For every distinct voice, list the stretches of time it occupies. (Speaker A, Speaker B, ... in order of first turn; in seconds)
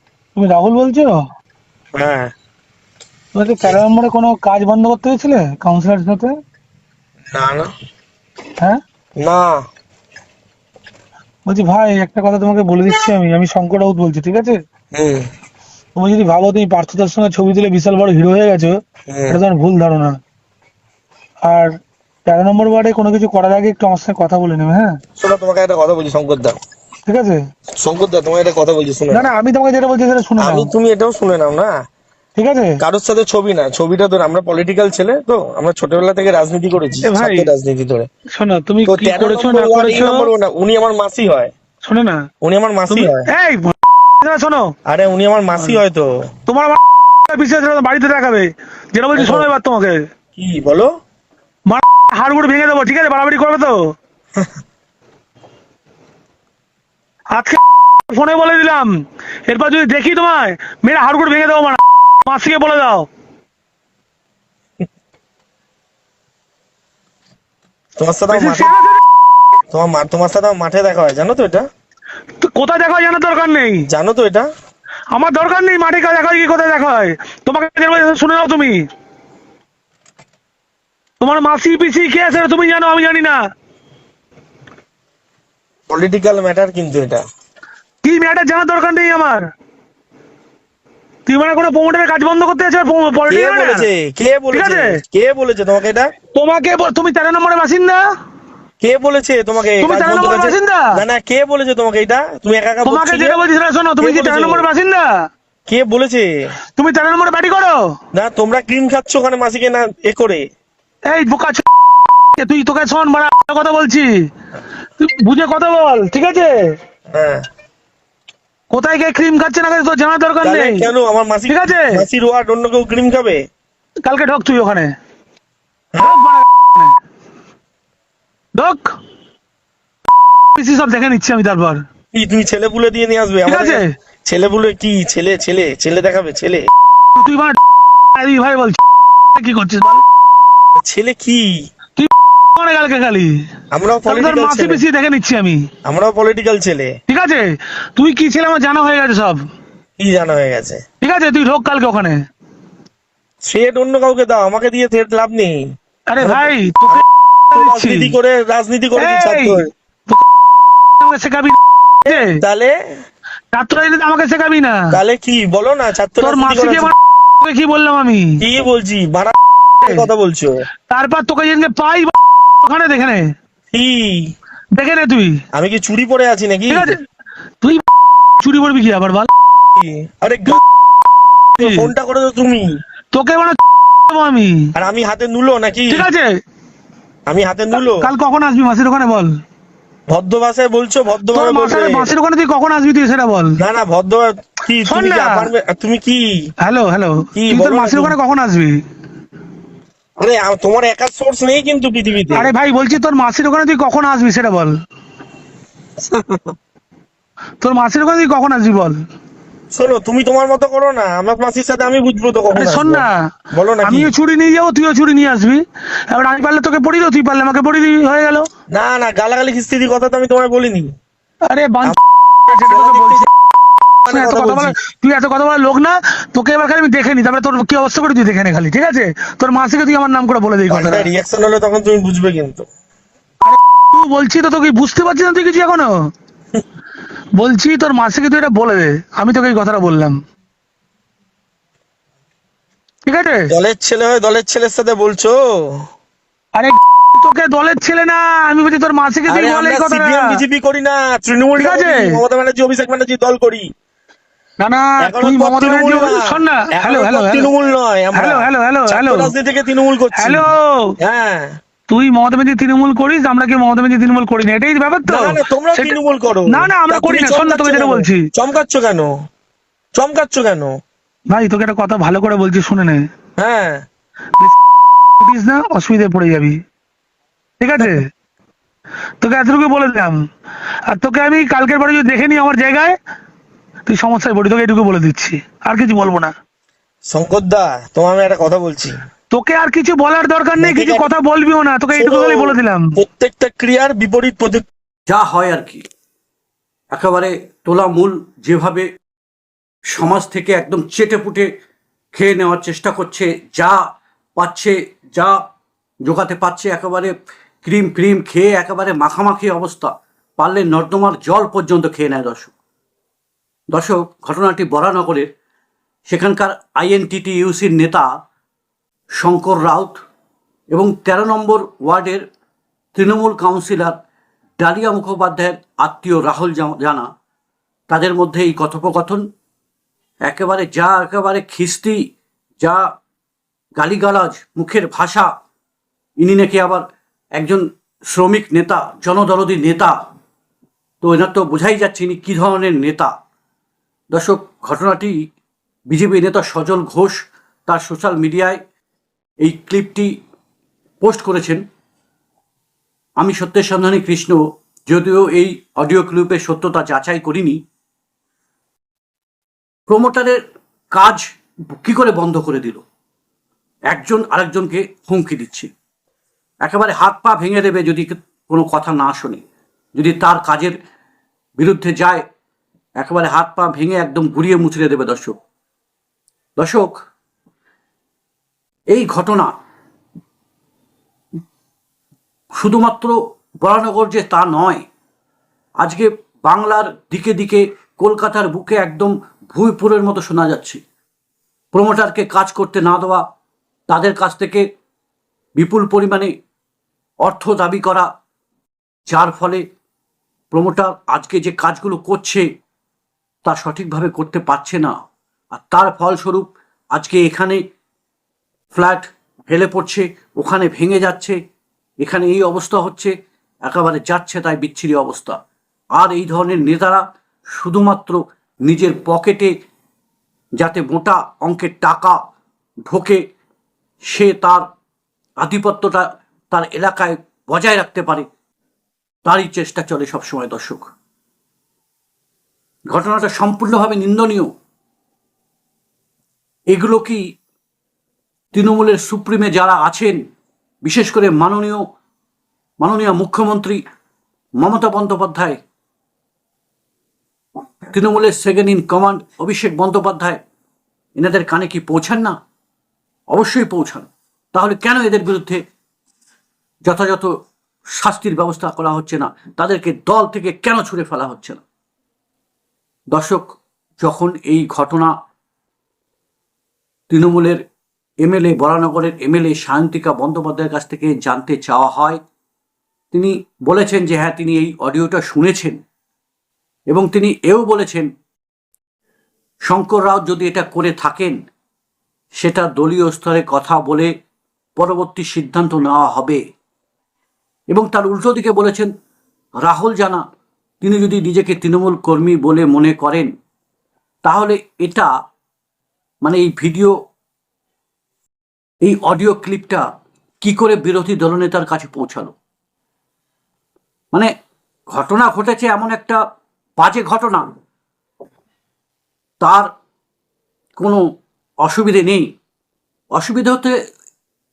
Speaker A: 0.3-1.1, 3.3-6.3, 11.4-14.6, 15.9-18.8, 19.3-20.2, 21.4-21.7, 22.2-24.9, 27.1-27.4, 29.1-30.7, 32.4-32.8, 37.0-37.5, 38.3-40.3, 41.8-42.2, 42.9-44.7, 46.5-50.0, 51.7-53.8, 57.3-58.9, 59.5-63.0, 68.3-69.0, 72.4-73.8, 75.1-78.8, 81.2-83.4, 88.0-89.4, 91.2-93.8, 94.5-95.0, 96.3-98.0, 99.8-100.9, 102.8-105.1, 106.8-107.8, 111.1-111.7, 112.3-114.1, 115.0-116.6, 118.7-120.8, 121.5-122.0, 124.0-124.9, 126.0-126.9, 128.5-128.9, 130.5-131.8, 133.4-133.9, 137.2-137.6, 138.1-138.8, 139.3-140.0, 142.0-143.3, 144.1-145.6, 147.1-149.4, 151.0-152.2, 156.1-158.1, 159.0-160.2, 161.0-162.4, 163.5-164.8, 166.2-168.4, 170.9-173.2, 174.7-175.4, 176.7-177.0, 178.4-179.3, 181.6-181.9, 183.1-184.7, 185.9-186.3, 188.0-189.3, 191.3-193.6, 194.8-195.5, 196.6-198.8, 202.3-204.7, 207.6-209.0, 212.5-213.1, 213.8-218.5, 221.5-223.3, 224.1-231.1, 233.4-235.9, 237.4-240.2, 243.1-243.5, 246.6-250.3, 251.6-252.2, 254.6-257.5, 258.1-259.3, 260.1-260.9, 261.9-265.9, 266.5-268.2, 271.3-273.0, 275.2-276.6, 277.6-278.1, 279.2-280.2, 280.9-282.9, 283.9-286.3, 289.3-292.9
Speaker B: 1.9-2.2, 7.3-7.7, 9.2-9.6, 14.9-15.2, 19.1-19.4, 25.2-26.6, 27.8-29.3, 30.4-31.7, 32.8-38.1, 38.8-41.5, 42.4-43.3, 44.9-46.2, 49.2-49.5, 50.4-50.9, 68.0-68.7, 69.7-71.7, 73.9-74.5, 85.9-87.2, 93.3-96.1, 98.8-103.4, 104.0-104.7, 105.7-106.5, 108.1-110.5, 117.1-117.4, 120.4-123.4, 132.1-136.7, 140.8-141.6, 143.7-144.8, 145.8-147.0, 150.0-150.8, 153.4-155.6, 156.2-159.7, 162.1-162.8, 164.9-166.9, 168.4-170.6, 173.7-174.3, 175.5-176.9, 179.8-180.6, 181.6-182.8, 184.8-186.1, 187.3-188.1, 190.1-192.1, 193.6-196.5, 197.3-198.2, 200.2-202.5, 206.0-206.5, 209.7-214.1, 218.7-220.9, 222.5-223.3, 224.0-224.7, 230.7-232.7, 243.5-245.8, 249.3-253.7, 255.0-260.5, 261.0-261.5, 265.1-269.1, 269.9-270.8, 273.4-273.8, 287.1-289.0, 290.6-291.1, 291.9-294.6
Speaker C: 295.1-295.8, 296.9-298.9, 299.9-301.5, 302.1-303.8, 304.4-305.4, 306.0-312.5, 313.7-315.3, 316.1-318.1, 319.2-320.0, 320.7-322.2, 322.9-323.9, 324.6-327.1, 327.9-329.2, 330.2-332.0, 333.8-335.3, 336.2-340.0, 341.0-343.1, 344.1-345.1, 345.9-348.6, 349.4-350.1, 351.0-351.6, 353.2-357.6, 359.9-360.4, 360.9-362.8, 363.9-365.7, 366.6-369.4, 369.9-370.8, 371.6-372.2, 373.0-375.4, 376.6-376.9, 378.9-379.5, 382.5-384.8, 385.8-390.8, 391.7-393.2, 393.9-394.6, 395.6-396.3, 397.2-398.1, 399.1-399.6, 400.5-402.4, 403.4-404.9, 405.5-407.6, 408.7-411.4, 412.0-413.1, 413.6-415.4, 415.9-419.5, 420.6-422.2, 422.9-423.2, 424.0-424.6, 425.4-428.2, 429.2-430.9, 432.9-434.5, 436.7-437.2, 438.5-440.2, 440.8-441.8, 442.8-443.8, 444.6-445.6, 447.9-450.4, 451.1-452.4, 453.3-455.6, 456.9-457.3, 458.0-461.6, 463.1-463.4, 464.0-465.1, 467.1-467.6, 468.2-472.2, 473.1-475.8, 476.9-478.1, 479.6-481.4, 482.4-484.1, 484.8-486.4, 487.7-488.9, 489.6-490.2, 490.8-493.3, 494.2-495.1, 496.2-496.9, 498.8-499.9, 500.4-502.3, 504.9-506.2, 506.8-507.5, 509.4-509.7, 511.6-512.3, 513.1-513.7